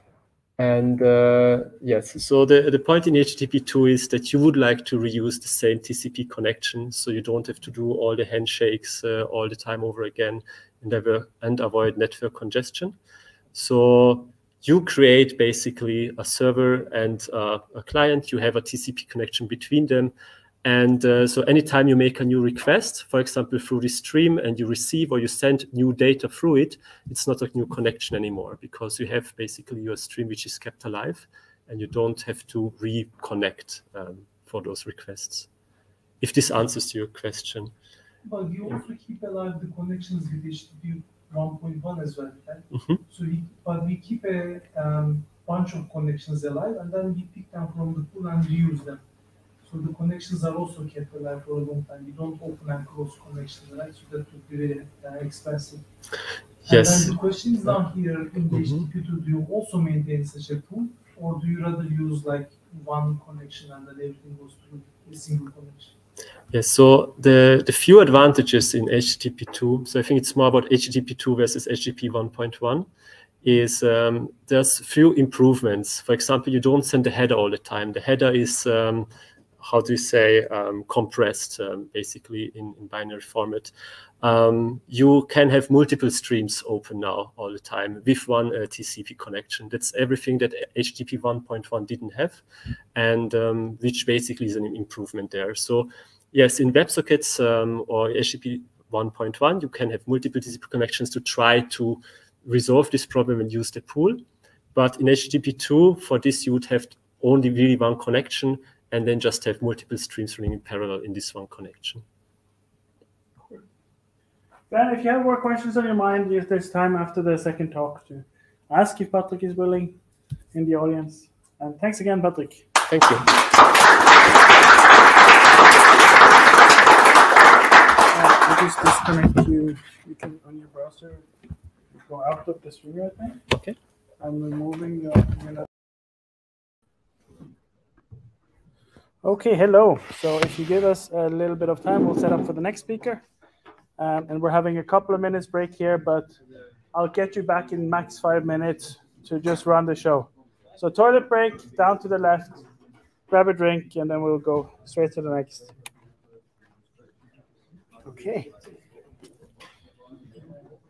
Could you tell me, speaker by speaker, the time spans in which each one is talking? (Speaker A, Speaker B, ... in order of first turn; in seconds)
Speaker A: 0.6-13.0, 13.5-20.1, 20.6-35.5, 36.2-37.7, 42.7-43.0, 56.6-57.8, 58.5-58.9, 66.5-72.9, 73.4-79.1, 79.6-92.4, 93.0-104.2, 104.8-112.0, 122.9-123.4, 133.5-133.8
Speaker B: 38.2-49.0, 49.6-55.9, 56.7-65.9
Speaker C: 114.7-120.0, 120.5-122.7, 128.1-131.3, 132.0-133.4, 134.2-135.7, 139.2-143.2, 144.0-146.4, 146.9-152.7, 153.3-155.8, 158.0-158.7